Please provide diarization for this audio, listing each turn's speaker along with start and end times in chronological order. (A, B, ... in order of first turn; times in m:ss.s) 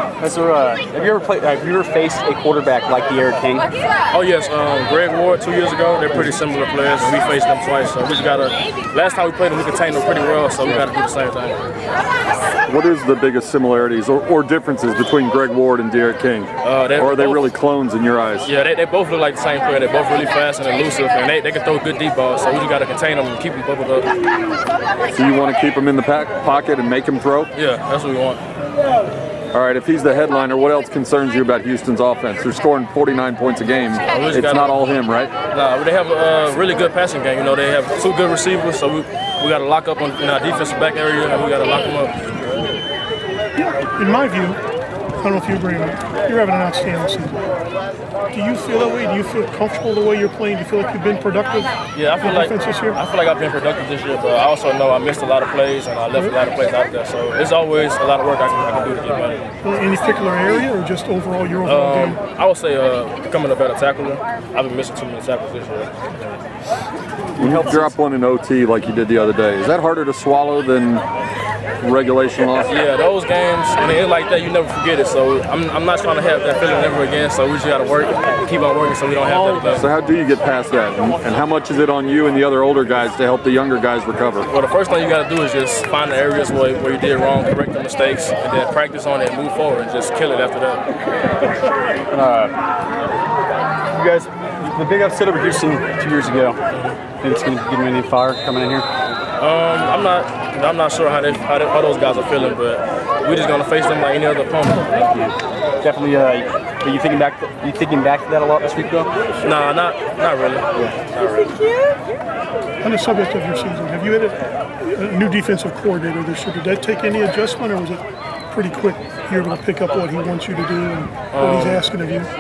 0:00.2-0:03.7 A
0:04.1-0:11.7 B
0:12.7-0:18.5 C
0:16.6-0:17.5 B
0:18.4-0:24.1 B
0:25.1-0:27.5 C
0:27.6-0:28.4 B
0:29.5-0:35.3 C
0:34.1-0:34.8 B
0:35.5-0:42.2 B
0:43.6-0:44.6 D
0:45.2-0:47.4 D
0:48.3-0:53.0 D
0:51.9-0:59.5 B
0:59.6-1:02.2 D
1:01.7-1:05.9 B
1:07.4-1:07.9 A
1:07.4-1:11.0 C
1:11.8-1:12.8 C
1:12.7-1:19.9 B
1:19.7-1:24.5 C
1:24.5-1:30.9 B
1:32.1-1:32.5 A
1:33.9-1:36.6 A
1:36.7-1:37.0 B
1:37.2-1:38.9 A
1:39.4-1:45.3 B
1:45.8-1:49.1 A
1:49.4-1:51.5 B
1:52.8-2:02.3 D
2:01.3-2:01.8 B